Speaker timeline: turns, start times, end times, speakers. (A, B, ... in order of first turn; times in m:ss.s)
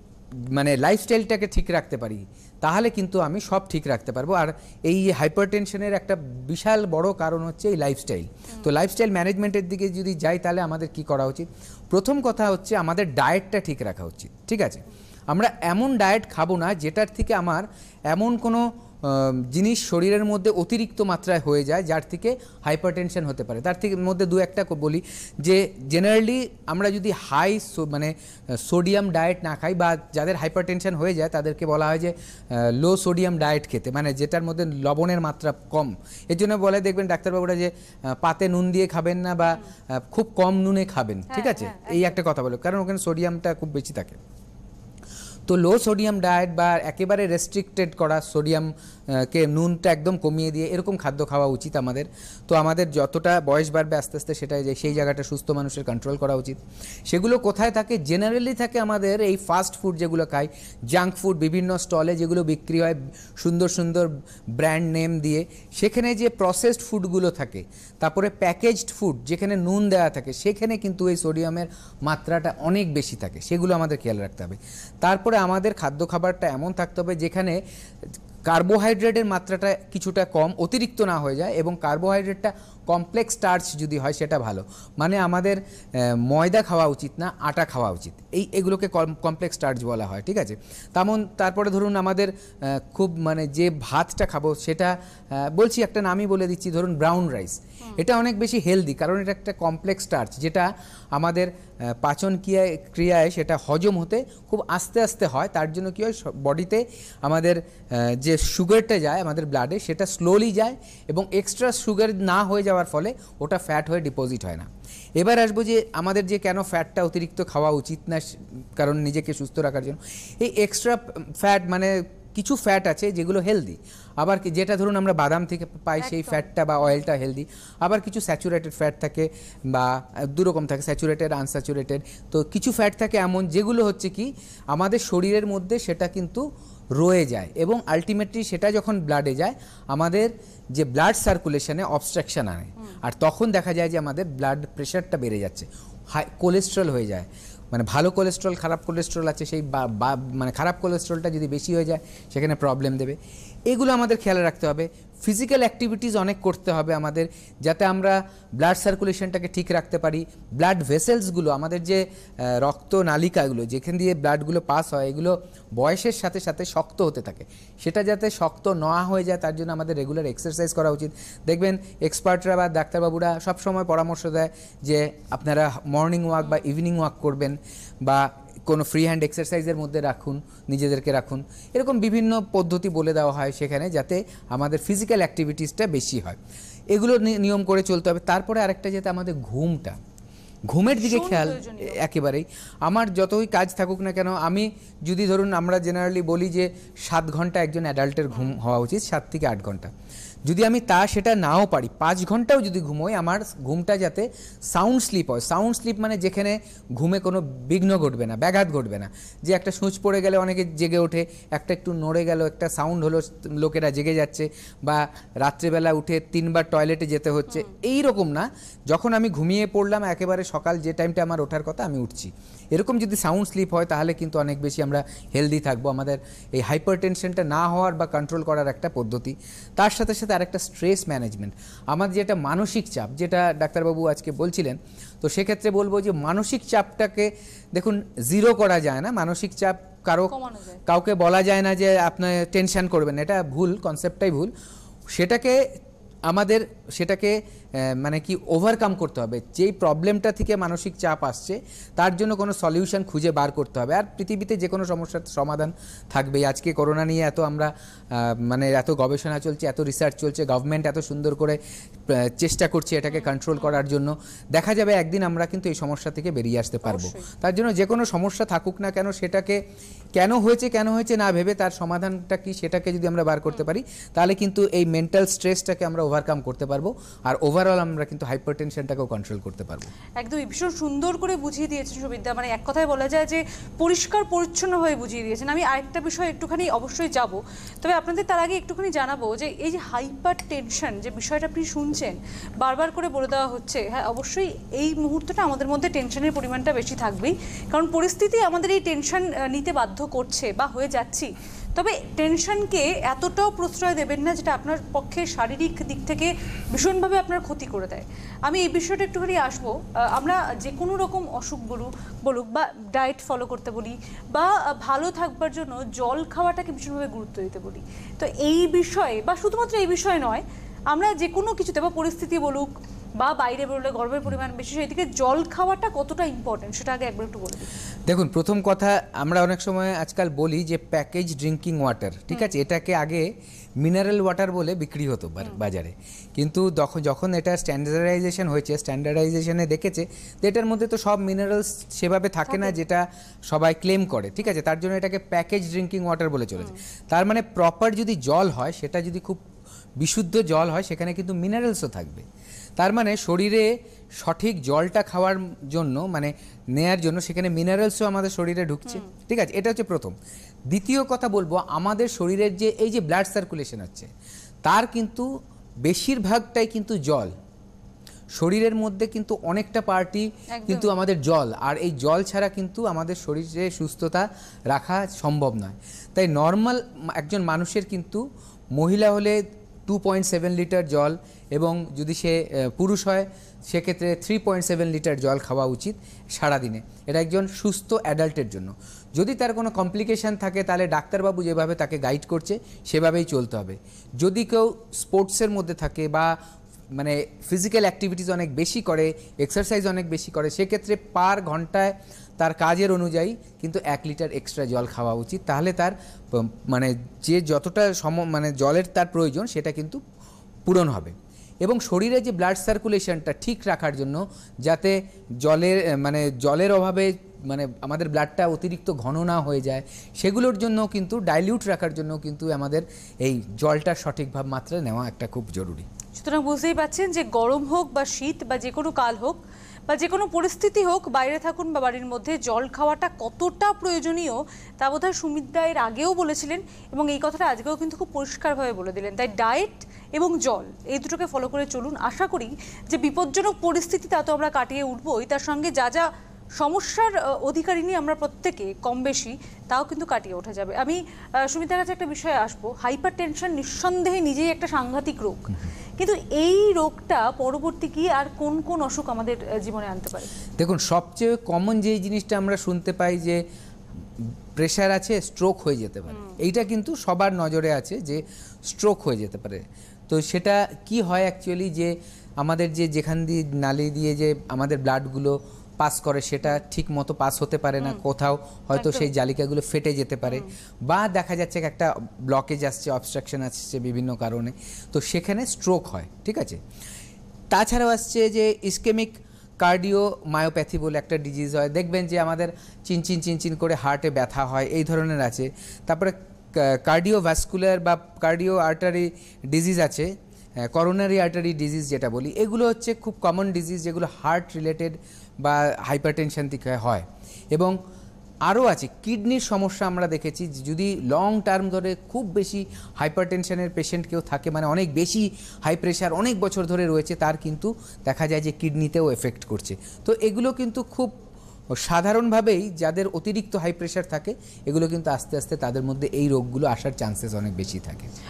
0:00.4-0:44.2 A
0:41.3-0:42.2 B
0:45.5-1:17.6 A
1:18.4-2:33.2 A
2:06.0-2:06.5 B
2:33.7-3:06.4 A
3:06.9-3:10.0 A
3:10.7-3:19.9 A
3:10.9-3:12.0 B
3:18.3-3:18.6 B
3:20.4-4:00.3 A
4:00.3-4:00.8 B
4:00.8-4:04.5 A
4:05.1-4:05.6 A
4:06.3-4:29.6 A
4:26.8-4:27.3 B
4:30.1-4:39.9 A
4:40.2-5:27.7 B
5:28.1-5:33.3 A
5:33.8-5:49.4 A
5:42.5-5:42.7 B
5:50.0-5:52.2 A
5:52.8-6:00.1 A
6:00.7-6:04.1 A
6:04.6-6:05.3 A
6:05.8-6:07.3 A
6:08.3-6:36.3 A
6:10.5-6:10.9 B
6:36.9-6:50.0 A
6:50.6-7:05.9 A
7:06.2-7:26.1 B
7:26.6-7:40.3 B
7:40.6-7:43.4 A
7:44.2-8:06.6 A
7:58.7-7:59.1 B
8:07.5-8:20.1 A
8:20.7-8:27.7 A
8:28.4-8:41.1 A
8:41.8-8:48.1 A